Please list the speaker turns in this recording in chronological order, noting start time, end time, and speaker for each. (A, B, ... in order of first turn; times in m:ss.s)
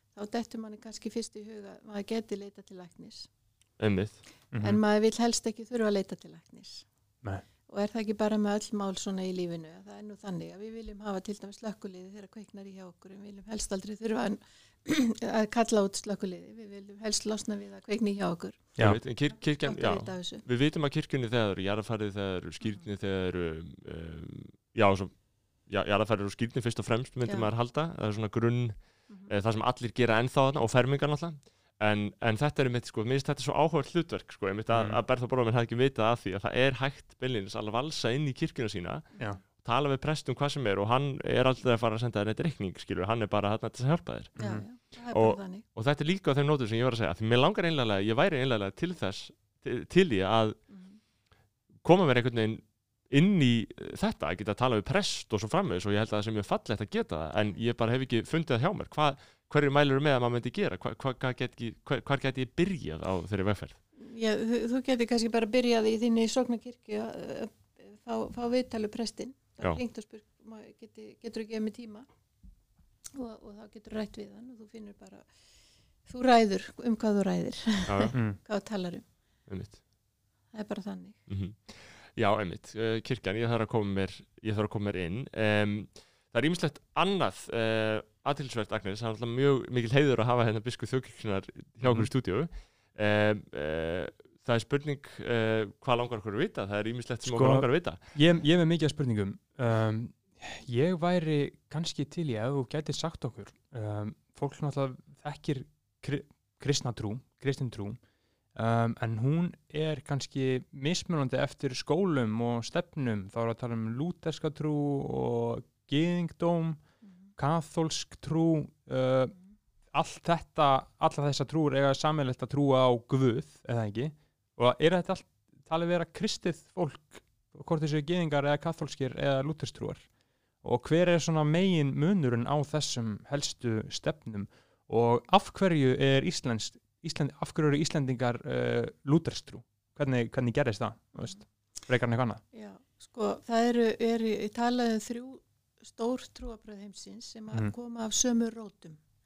0:00.2-0:03.3 A
0:03.8-0:04.2 B
0:04.5-0:04.8 C
0:04.6-0:06.8 A
0:07.7-0:18.8 A
0:18.8-0:39.1 B
0:19.6-0:20.4 A
0:34.7-0:35.0 C
0:39.6-0:50.6 B
0:44.4-0:44.6 C
0:44.4-0:45.6 A
0:50.7-0:51.0 A
0:51.8-1:03.8 B
1:04.0-1:12.1 A
1:13.1-1:15.2 A
1:16.1-1:19.0 A
1:17.9-1:18.1 B
1:19.5-1:19.8 B
1:20.5-1:21.2 A
1:21.3-1:38.0 B
1:31.8-1:32.1 C
1:37.3-1:48.0 C
1:48.6-1:56.8 C
1:57.4-1:59.3 C
1:59.9-2:10.1 C
2:10.6-2:22.4 C
2:22.5-2:29.0 A